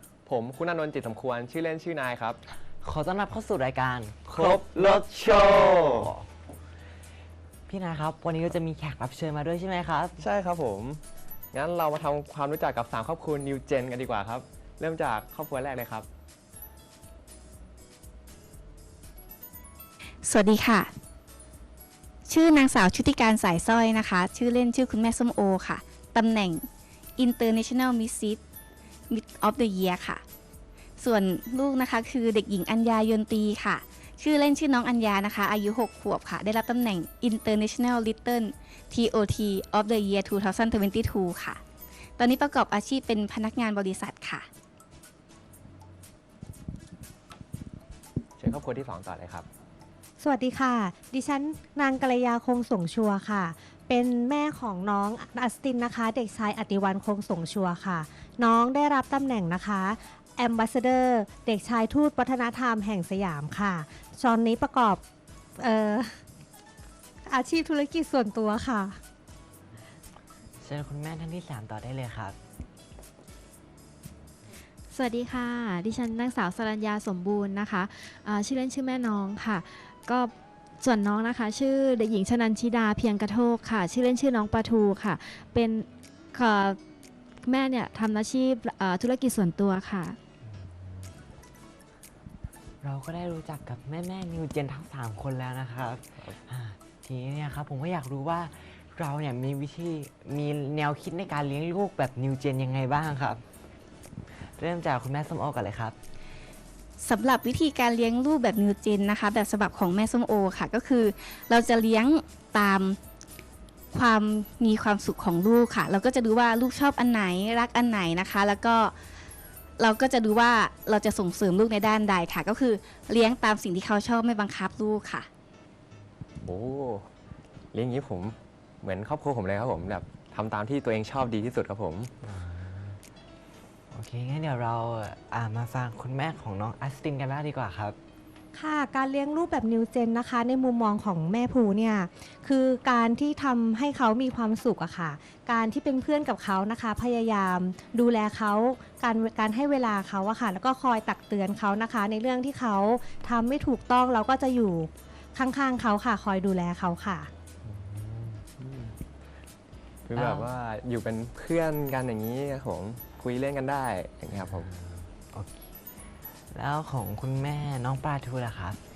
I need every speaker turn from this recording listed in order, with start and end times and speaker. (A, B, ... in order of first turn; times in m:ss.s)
0:00.2-0:02.4 A
0:02.8-0:06.2 B
0:04.3-0:06.1 A
0:07.7-0:10.2 B
0:10.2-0:11.0 A
0:11.5-0:16.1 A
0:20.2-0:20.9 C
0:22.3-0:26.6 C
0:27.2-0:28.4 C
0:29.1-0:30.2 C
0:31.0-0:41.6 C
0:42.2-0:44.4 C
0:48.4-0:49.4 A
0:50.2-1:05.0 D
1:05.6-1:06.1 D
1:07.2-1:09.0 D
1:10.6-1:12.4 B
1:14.9-1:26.8 E
1:27.4-1:30.2 E
1:30.4-1:31.1 B
1:32.8-1:43.4 B
1:44.4-1:45.9 B
1:47.0-1:53.0 C
1:53.9-1:58.9 C
1:59.8-2:05.3 C
2:06.4-2:07.1 A
2:07.7-2:12.1 A
2:12.2-2:13.0 B
2:13.9-2:18.0 B
2:18.5-2:37.3 D
2:37.6-2:38.4 B
2:38.6-2:38.9 A
2:40.0-2:44.7 A
2:40.1-2:40.5 B
2:44.4-2:45.6 B
2:46.5-2:48.8 B